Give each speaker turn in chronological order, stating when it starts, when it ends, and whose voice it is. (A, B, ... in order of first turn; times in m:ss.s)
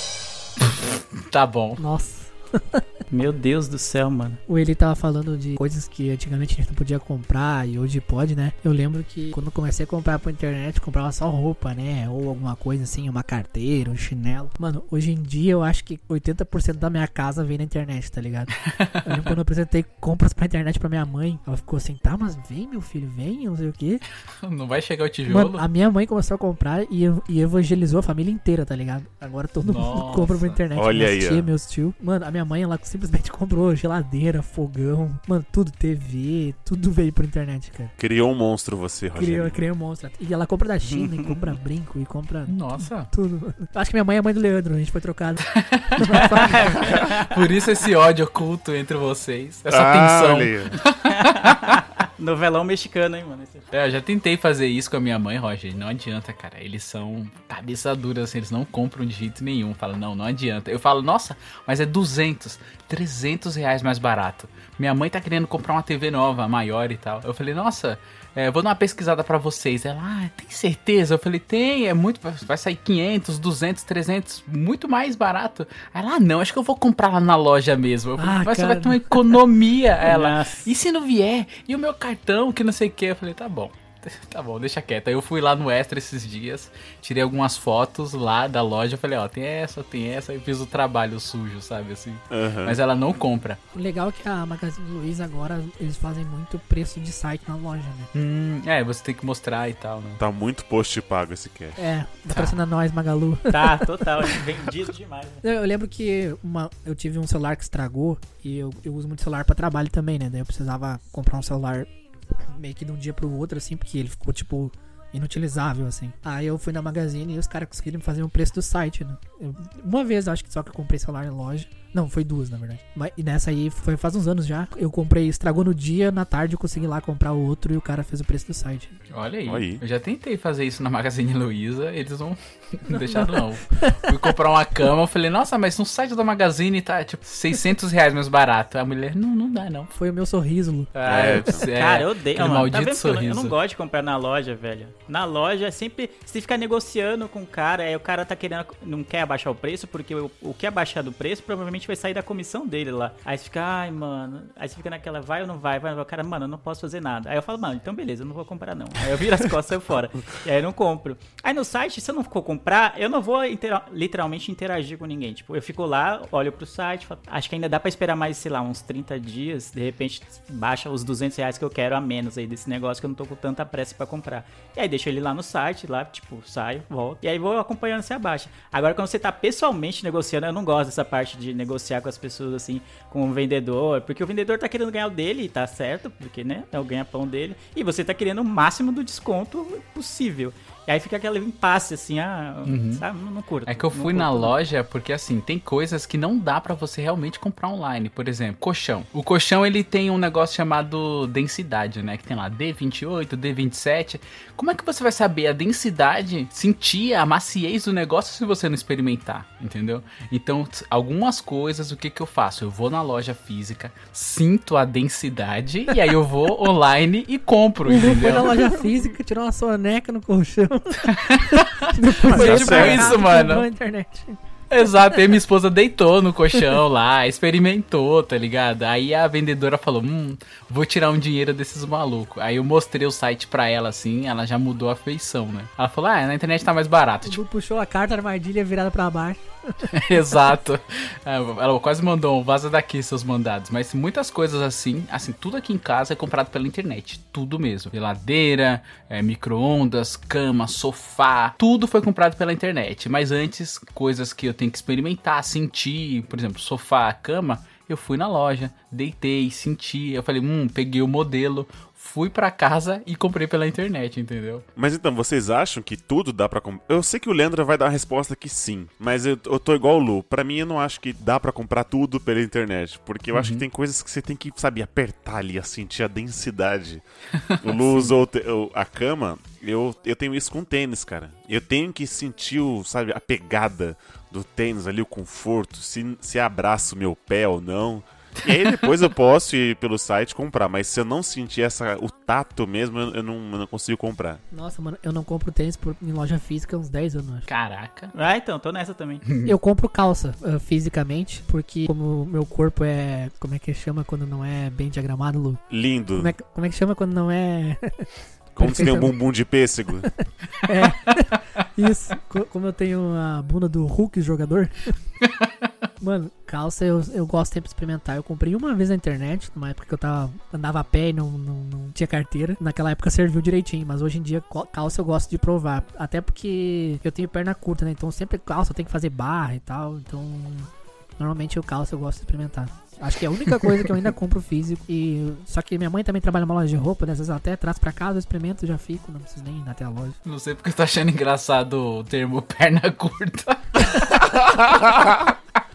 0:00.7-0:01.8 A
0:01.8-0:02.9 B
0:03.1-0:04.4 C
0:04.5-0:18.5 B
0:18.6-0:19.3 A
0:19.0-0:24.0 B
0:24.4-0:25.6 A
0:25.3-0:37.9 B
0:29.6-0:30.6 A
0:30.8-0:31.5 D
0:38.0-0:39.6 D
0:39.2-0:45.4 B
0:40.9-0:41.4 C
0:42.5-0:43.1 A
0:45.6-0:51.8 A
0:46.0-0:46.8 B
0:46.4-0:47.5 C
0:49.7-0:50.8 D
0:51.1-0:53.7 C
0:53.7-1:33.6 A
1:18.2-1:19.4 B
1:20.0-1:20.7 C
1:32.3-1:32.8 D
1:33.7-1:38.1 B
1:38.1-1:40.2 A
1:40.2-1:41.8 D
1:41.8-1:44.2 B
1:42.3-1:42.6 A
1:43.5-1:45.4 C
1:45.4-2:09.0 B
2:09.1-2:19.9 A
2:09.5-2:09.8 D
2:12.9-2:14.3 B
2:19.9-2:21.5 B
2:21.0-2:23.6 A
2:21.1-2:21.6 D
2:21.7-3:14.5 C
3:12.7-3:13.0 A
3:13.7-3:38.8 A
3:37.9-3:44.4 B
3:41.0-3:43.7 A
3:42.3-3:43.2 D
3:44.7-3:57.4 A
3:57.2-4:00.2 B
3:59.9-4:24.6 A
4:24.8-4:37.0 D
4:33.3-4:33.6 A
4:37.4-4:38.2 A
4:37.6-4:54.4 D
4:48.5-4:48.8 A
4:54.5-4:57.5 B
4:57.5-4:58.1 A
4:58.1-4:59.2 C
4:59.3-4:59.5 A
4:59.4-5:05.6 B
5:05.7-5:06.3 D
5:06.2-5:09.2 B
5:08.6-5:10.1 D
5:10.0-5:15.0 B
5:16.0-5:40.2 B
5:40.2-5:44.2 A